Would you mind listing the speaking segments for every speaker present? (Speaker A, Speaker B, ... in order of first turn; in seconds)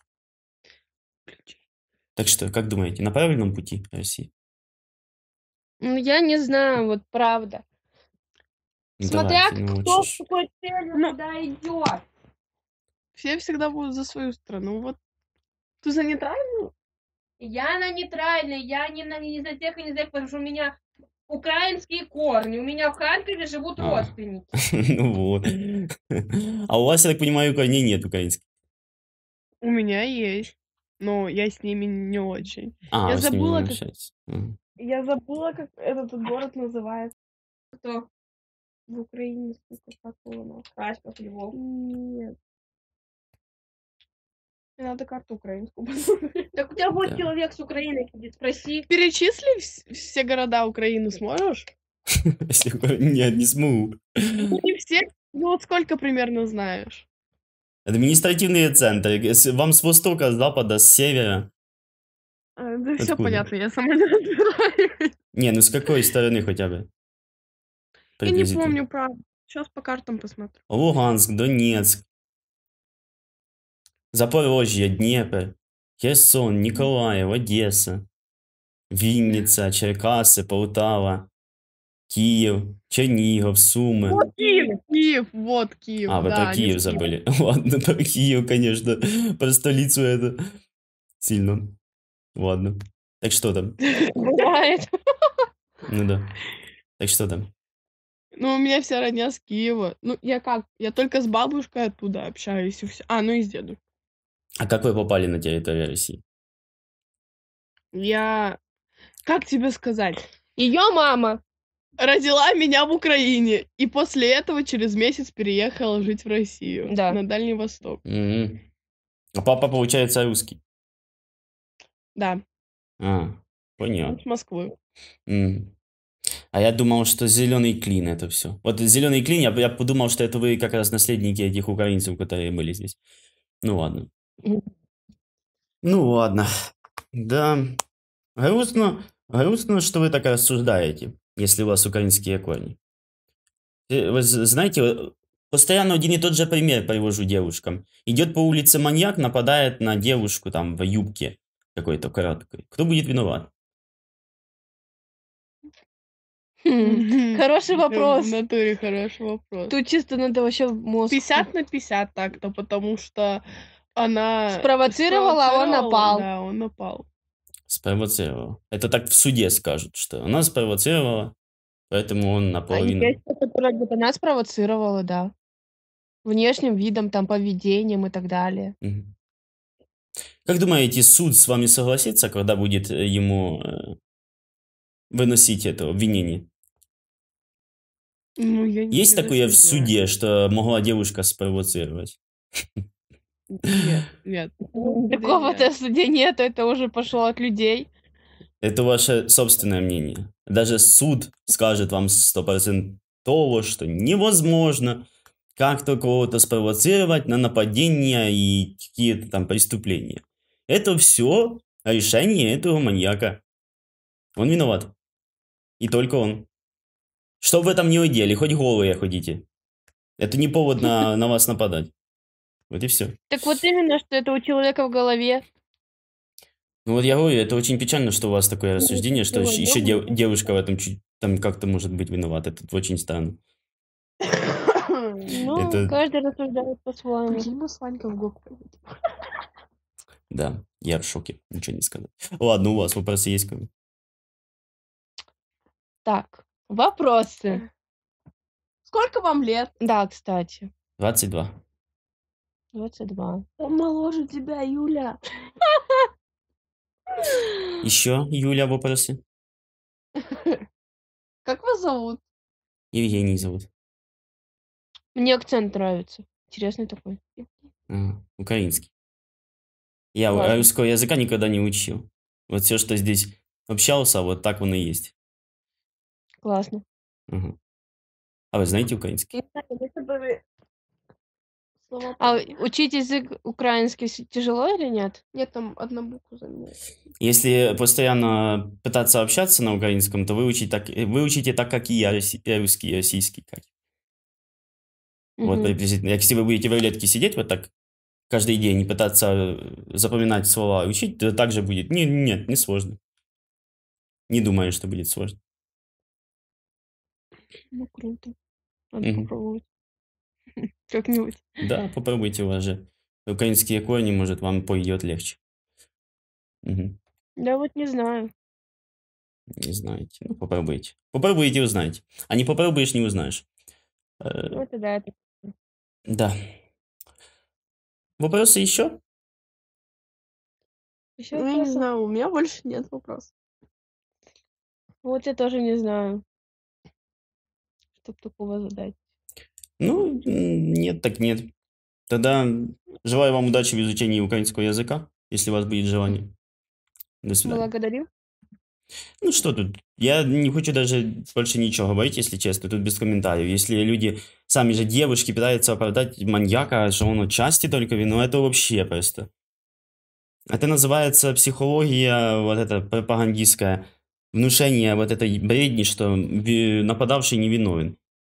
Speaker A: 1.3-1.6, 13.1-15.0, 15.8-16.7, 29.6-33.8, 34.8-37.1, 41.5-42.4, 44.8-46.5, 48.9-51.7, 54.5-57.0, 62.6-65.1, 68.2-70.6, 84.1-87.0, 98.4-103.8, 107.9-108.6, 109.2-110.2, 112.0-118.0, 122.1-122.4, 124.1-124.7, 156.8-159.7, 161.1-163.4, 163.9-167.1, 188.4-189.9, 193.5-195.7, 234.2-235.3, 237.3-238.8, 248.8-249.7, 253.6-255.2, 261.4-262.2, 281.9-282.5, 285.3-286.8, 331.3-333.3
Speaker B: 2.1-4.3, 9.0-10.2, 23.8-24.1, 24.7-28.4, 32.9-34.6, 52.5-54.5, 57.9-61.5, 63.0-63.5, 65.3-66.9, 68.2-68.8, 70.7-72.0, 74.1-78.0, 78.9-81.3, 82.1-84.2, 86.1-90.4, 91.2-91.8, 92.3-93.8, 95.9-96.3, 97.0-97.5, 104.6-106.2, 118.0-118.6, 119.3-120.6, 123.0-124.2, 125.3-125.7, 126.5-133.0, 133.6-134.1, 135.8-136.5, 137.2-137.8, 138.4-142.8, 143.9-153.5, 167.7-171.3, 171.9-173.1, 178.8-179.1, 180.4-183.9, 185.1-186.5, 188.9-192.2, 198.6-213.4, 214.3-214.9, 215.8-216.5, 217.4-219.4, 220.2-221.9, 222.7-223.2, 226.8-233.4, 235.5-235.9, 240.3-243.7, 251.0-251.6, 257.8-259.2, 262.9-263.7, 267.9-268.9, 270.1-275.1, 277.3-277.6, 278.5-279.3, 287.2-293.6, 295.4-297.7, 298.3-303.0, 304.3-305.4, 309.0-309.3, 311.6-315.4, 316.6-317.0, 319.6-323.4, 324.2-324.6, 326.1-326.3, 328.2-329.0, 339.8-341.5, 342.1-346.3, 347.2-347.6, 349.2-359.3, 360.5-368.0
Speaker C: 5.8-7.6, 9.0-12.0, 17.4-24.5, 37.7-38.1, 38.9-41.5, 46.5-48.9, 84.1-84.8, 94.1-94.9, 110.6-111.4, 116.9-117.2, 156.6-158.4, 159.7-161.5, 164.5-166.3, 172.7-175.3, 176.2-178.7, 194.7-197.9, 223.3-225.4, 228.8-230.1, 235.3-237.5, 246.0-247.6, 249.8-250.7, 252.7-253.5, 265.1-267.5, 270.3-270.7, 276.4-276.8, 279.3-280.4, 282.2-285.2, 295.4-295.7, 307.7-308.3, 308.9-309.6, 310.9-311.4, 317.4-318.3, 324.5-325.5, 331.2-331.9, 335.0-336.2, 338.0-339.0, 347.4-348.1